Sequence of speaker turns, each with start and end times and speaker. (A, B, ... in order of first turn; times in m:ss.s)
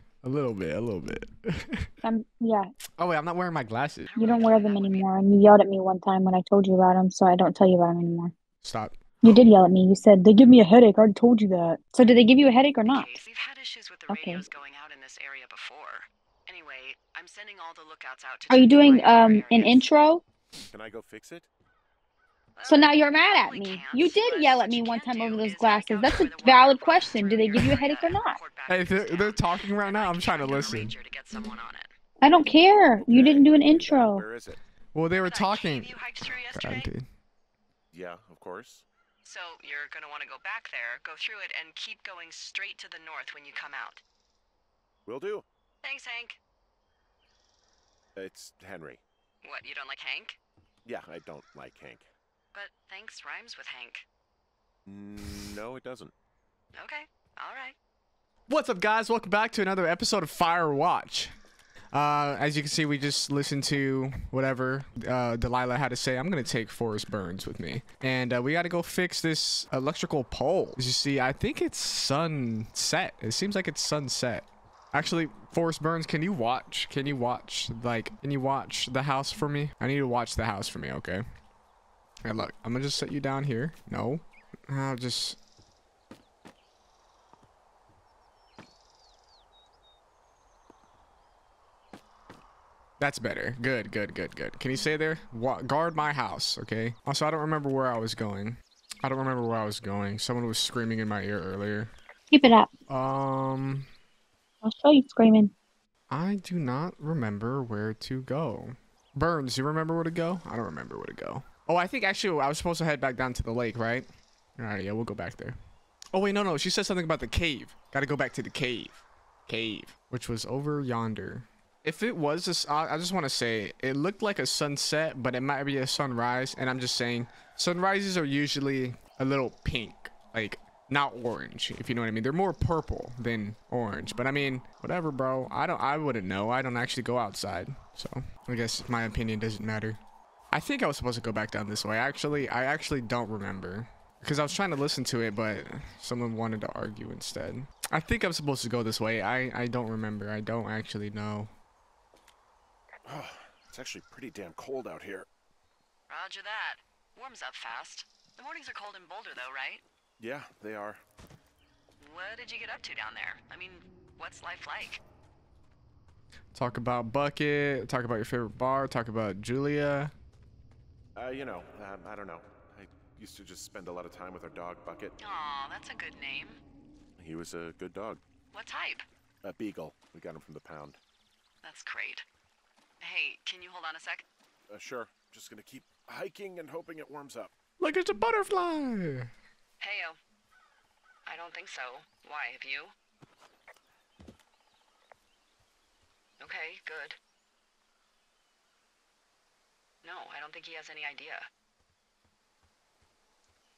0:00.2-0:01.9 A
0:02.0-0:02.6 B
0:03.0-0:04.2 A
0:04.1-0:05.1 C
0:04.2-0:08.3 B
0:08.6-0:09.0 A
0:09.2-0:13.2 B
0:12.9-0:19.9 C
0:14.1-0:14.4 B
0:18.5-0:20.2 B
0:20.7-0:21.5 D
0:22.6-0:31.9 C
0:22.7-0:28.4 B
0:28.7-0:30.9 A
0:32.2-0:34.2 B
0:33.0-0:34.6 D
0:34.9-0:37.0 A
0:35.1-0:36.9 C
0:37.9-0:38.8 D
0:39.2-0:44.0 C
0:45.1-0:45.4 D
0:45.8-0:46.4 C
0:48.2-0:49.0 D
0:49.4-0:50.4 C
0:50.8-0:52.1 D
0:52.5-0:54.1 C
0:54.9-0:56.1 D
0:56.8-0:57.8 C
0:58.5-1:01.3 A
1:01.9-1:21.2 A
1:22.2-1:25.4 A
1:33.0-1:41.9 A
1:42.3-1:42.7 B
1:42.9-1:43.9 A
1:44.6-1:45.5 B
1:46.1-1:55.6 A
1:56.1-2:20.0 A
2:20.5-2:31.5 A
2:33.1-2:35.3 D
2:36.1-2:39.8 C
2:40.2-2:41.0 D
2:42.0-2:45.0 C
2:46.5-2:50.1 A
2:51.2-2:55.1 D
2:55.2-2:56.6 C
2:57.2-2:58.2 D
2:58.5-2:59.0 C
2:59.4-3:01.0 D
3:01.6-3:02.2 C
3:03.0-3:04.2 C
3:04.7-3:07.5 D
3:07.8-3:09.3 A
3:09.8-3:10.2 C
3:11.2-3:12.9 C
3:16.4-3:17.2 C
3:20.0-3:21.4 C